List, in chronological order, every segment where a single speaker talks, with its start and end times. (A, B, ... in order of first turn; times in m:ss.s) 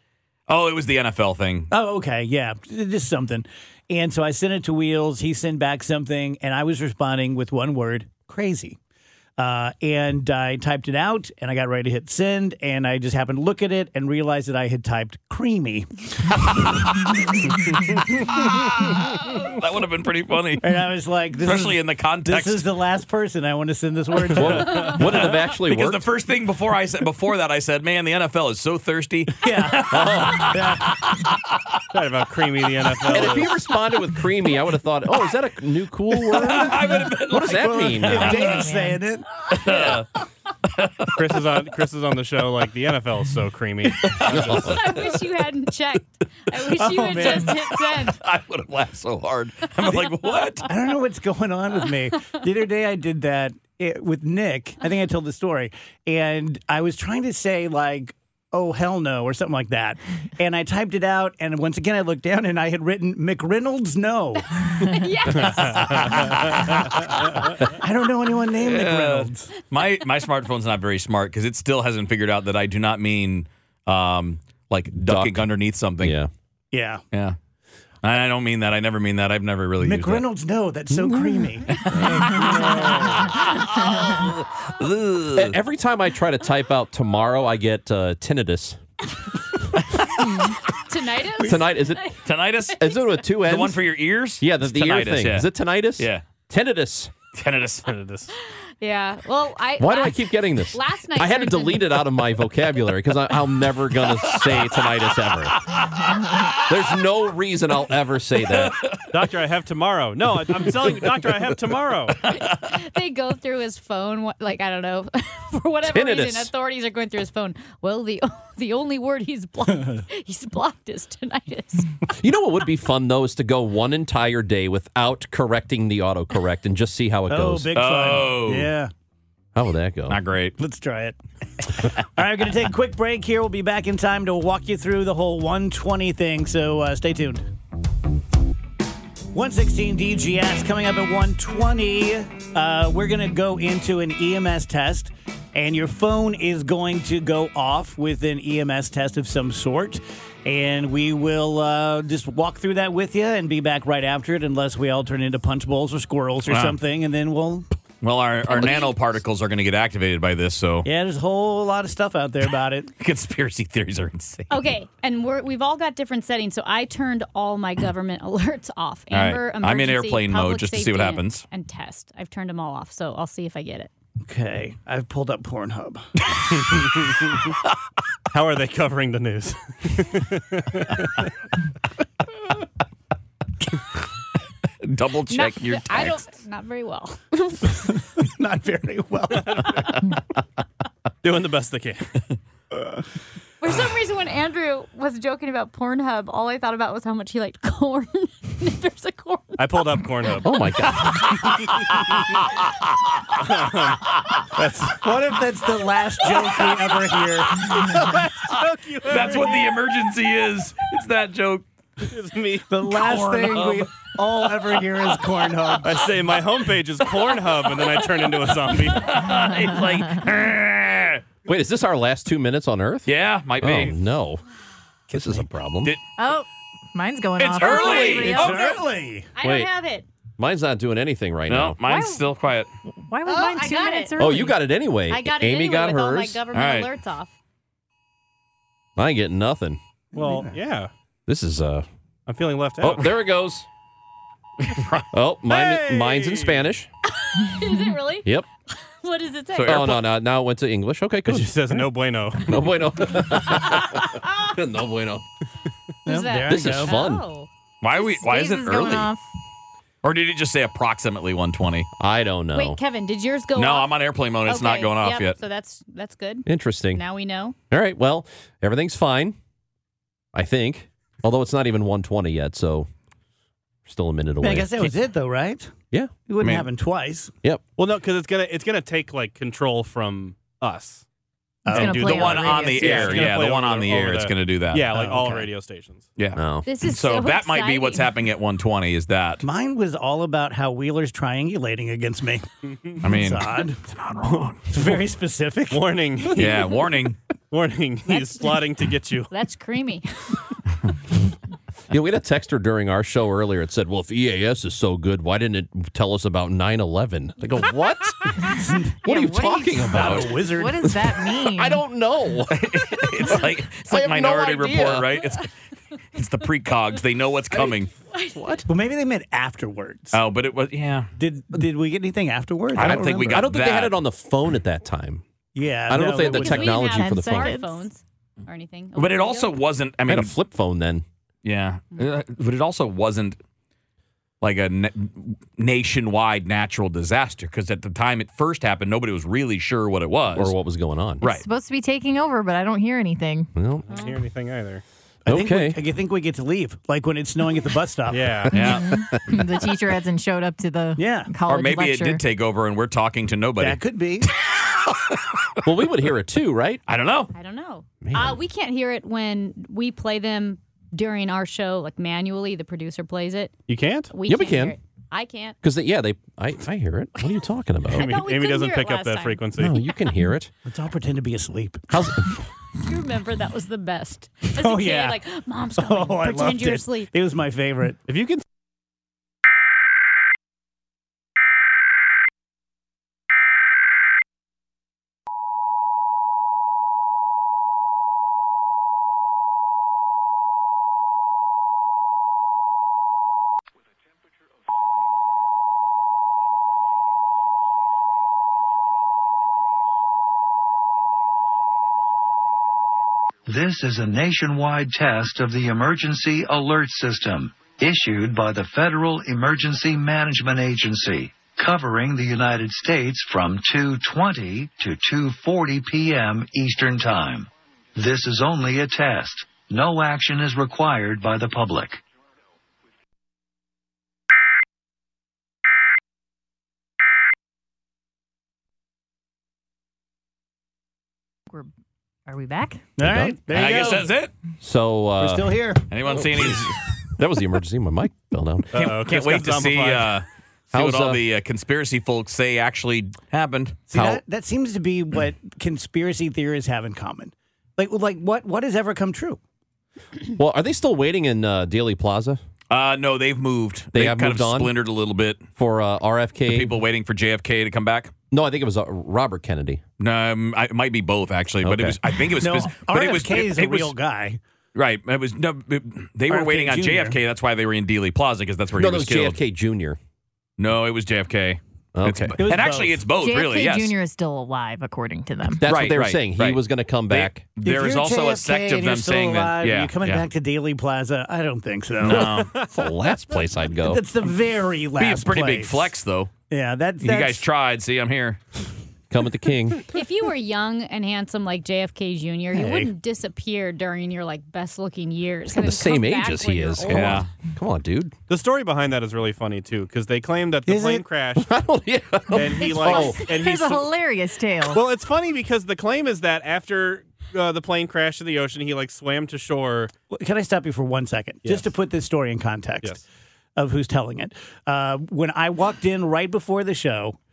0:00.5-0:01.7 A
0:01.7-0:08.8 B
0:09.4-0:16.7 B
0:18.3-0:20.6 A
0:20.6-0:25.0 B
0:21.4-0:22.7 A
0:24.3-0:26.0 C
0:24.9-0:31.3 A
0:29.4-0:30.9 B
0:29.9-0:30.5 C
0:31.9-0:33.5 D
0:33.1-0:38.5 C
0:36.2-0:38.4 A
0:37.4-0:39.9 B
0:38.1-0:39.0 E
0:39.5-0:40.1 A
0:40.8-0:41.1 A
0:41.2-0:44.8 D
0:44.1-0:44.4 A
0:44.2-0:45.0 C
0:44.6-0:48.2 F
0:46.7-0:47.6 B
0:47.2-0:50.7 A
0:50.7-1:04.7 B
1:04.6-1:06.4 F
1:05.4-1:06.1 D
1:05.6-1:06.8 A
1:07.6-1:09.5 B
1:08.6-1:16.2 A
1:15.0-1:15.4 C
1:16.0-1:16.3 C
1:16.7-1:17.0 B
1:18.0-1:20.2 A
1:19.8-1:22.5 B
1:20.9-1:21.4 C
1:21.7-1:25.6 A
1:22.0-1:22.4 C
1:22.8-1:23.0 D
1:25.3-1:28.8 C
1:29.9-1:30.2 A
1:30.8-1:32.2 F
1:31.4-1:32.1 C
1:32.2-1:36.2 A
1:32.7-1:33.8 C
1:32.7-1:33.2 F
1:34.4-1:37.1 C
1:37.3-1:37.8 A
1:37.8-1:38.3 D
1:38.8-1:42.0 F
1:39.8-1:45.6 C
1:45.6-1:46.6 A
1:46.6-1:48.8 C
1:48.6-1:49.0 A
1:49.1-1:52.2 D
1:52.4-2:01.9 F
1:55.8-1:56.5 C
2:02.2-2:07.7 C
2:07.3-2:08.9 B
2:07.7-2:08.7 A
2:09.5-2:10.2 C
2:10.1-2:10.6 A
2:10.6-2:11.2 B
2:11.8-2:17.5 B
2:19.3-2:37.6 B
2:36.5-2:36.8 A
2:38.0-2:40.9 A
2:38.5-2:38.9 F
2:40.8-2:42.9 B
2:43.0-2:44.6 A
2:44.5-2:53.9 F
2:49.1-2:51.4 A
2:54.3-2:56.1 B
2:56.7-2:57.3 D
2:58.3-3:01.3 D
3:04.8-3:06.2 A
3:05.3-3:07.6 F
3:07.9-3:10.0 B
3:11.2-3:12.1 D
3:13.6-3:19.8 F
3:19.6-3:20.5 D
3:20.4-3:21.4 C
3:23.4-3:25.0 D
3:25.0-3:27.8 B
3:27.7-3:29.8 D
3:29.0-3:31.6 A
3:32.0-3:32.6 D
3:32.7-3:36.0 B
3:32.9-3:33.8 A
3:35.8-3:39.1 D
3:38.9-3:41.2 A
3:41.4-3:44.4 C
3:43.0-3:43.9 A
3:45.1-3:45.9 C
3:46.2-3:48.7 E
3:47.4-3:48.8 A
3:47.6-3:48.8 F
3:47.7-3:49.3 B
3:49.3-3:50.0 F
3:49.4-3:49.7 C
3:50.4-3:51.8 C
3:51.5-3:52.7 A
3:51.8-3:52.2 E
3:53.0-3:54.6 E
3:53.2-3:54.2 F
3:54.2-3:56.4 C
3:55.1-3:57.3 F
3:56.5-3:56.9 A
3:59.0-3:59.8 C
4:00.1-4:00.6 B
4:00.1-4:00.9 D
4:01.3-4:01.8 C
4:02.3-4:03.1 D
4:02.8-4:03.7 C
4:04.6-4:05.1 A
4:05.1-4:06.9 C
4:05.5-4:06.6 D
4:07.2-4:10.0 F
4:09.5-4:10.0 A
4:09.6-4:11.8 C
4:11.2-4:12.6 D
4:12.4-4:15.2 C
4:16.0-4:17.0 B
4:16.0-4:17.5 F
4:16.5-4:17.2 C
4:17.8-4:19.1 A
4:17.9-4:19.2 E
4:20.0-4:21.9 A
4:22.0-4:22.8 C
4:22.5-4:23.9 F
4:23.5-4:25.4 A
4:24.4-4:27.5 F
4:26.4-4:27.0 C
4:27.7-4:29.4 C
4:30.3-4:32.9 C
4:33.8-4:34.9 C
4:34.4-4:35.7 B
4:36.3-4:37.3 B
4:36.4-4:36.7 A
4:37.8-4:41.0 D
4:41.6-4:42.4 B
4:41.7-4:43.1 E
4:41.7-4:46.1 D
4:42.0-4:44.8 A
4:44.9-4:45.5 B
4:46.2-4:49.4 A
4:46.3-4:46.6 C
4:46.6-4:48.1 F
4:49.4-4:53.8 B
4:53.0-4:54.7 A
4:54.7-4:56.4 B
4:55.7-4:56.6 D
4:56.3-4:57.2 A
4:57.5-4:59.3 D
4:58.1-4:58.5 F
4:59.3-5:00.4 F
5:01.9-5:08.5 C
5:08.5-5:09.0 B
5:09.0-5:15.1 C
5:09.0-5:11.8 E
5:09.8-5:10.9 B
5:12.5-5:15.5 A
5:16.1-5:17.9 A
5:18.1-5:18.6 F
5:18.3-5:18.6 C
5:18.6-5:20.2 B
5:20.1-5:21.1 A
5:21.2-5:23.5 B
5:22.7-5:23.9 A
5:22.8-5:25.2 C
5:25.5-5:27.0 B
5:25.9-5:27.6 C
5:26.2-5:29.5 F
5:27.0-5:27.8 E
5:29.0-5:30.3 A
5:30.1-5:31.0 C
5:31.4-5:33.4 A
5:34.4-5:40.6 A
5:40.3-5:41.2 C
5:41.2-5:43.5 E
5:43.5-5:43.8 C
5:43.9-5:44.8 D
5:43.9-5:44.2 F
5:45.2-5:48.5 B
5:45.2-5:45.8 C
5:48.1-5:48.6 D
5:48.5-5:48.9 A
5:48.5-5:52.2 E
5:48.7-5:49.2 C
5:51.0-5:51.3 B
5:51.4-5:53.8 A
5:53.6-5:54.3 B
5:54.4-5:55.5 A
5:55.6-5:56.8 C
5:56.9-5:57.3 A
5:57.3-6:03.6 F
5:58.0-5:58.4 C
6:03.7-6:04.1 D
6:04.1-6:05.6 F
6:04.2-6:04.7 C
6:05.6-6:08.2 C
6:07.9-6:09.9 F
6:07.9-6:09.8 D
6:09.6-6:10.5 C
6:10.6-6:12.0 B
6:11.9-6:12.3 C
6:12.8-6:17.1 F
6:14.5-6:15.2 B
6:15.8-6:18.0 B
6:18.1-6:18.4 D
6:43.4-7:02.0 G
7:12.3-7:12.8 E
7:13.0-7:14.1 B
7:13.0-7:13.4 C
7:13.5-7:14.3 A
7:14.6-7:18.8 C
7:15.2-7:15.8 B
7:15.9-7:16.8 A
7:18.7-7:20.2 D
7:18.7-7:23.8 A
7:20.7-7:21.2 C
7:23.9-7:29.4 B
7:23.9-7:24.2 C
7:30.4-7:32.4 C
7:32.7-7:35.4 A
7:33.9-7:34.7 C
7:35.6-7:36.8 C
7:36.5-7:38.1 A
7:38.3-7:39.8 C
7:40.0-7:43.9 A
7:41.6-7:42.0 C
7:42.4-7:44.4 B
7:44.7-7:49.4 A
7:46.3-7:47.2 B
7:48.7-7:50.0 C
7:50.6-7:53.9 A
7:51.9-7:52.4 C
7:52.4-7:53.0 B
7:53.2-7:55.6 E
7:55.6-7:57.4 C
7:55.6-8:00.2 A
7:57.6-8:02.4 B
8:02.0-8:02.5 A
8:02.1-8:04.0 C
8:02.3-8:02.7 D
8:03.8-8:05.9 B
8:05.0-8:06.3 A
8:06.5-8:07.4 B
8:07.0-8:08.4 A
8:09.1-8:09.8 C
8:09.9-8:17.2 F
8:12.5-8:12.9 B
8:15.5-8:18.1 C
8:16.9-8:17.3 A
8:18.3-8:21.5 D
8:20.7-8:21.0 B
8:21.4-8:23.2 C
8:22.3-8:23.9 D
8:22.7-8:24.8 E
8:24.7-8:29.9 D
8:30.1-8:33.0 B
8:31.4-8:31.7 D
8:33.6-8:37.2 B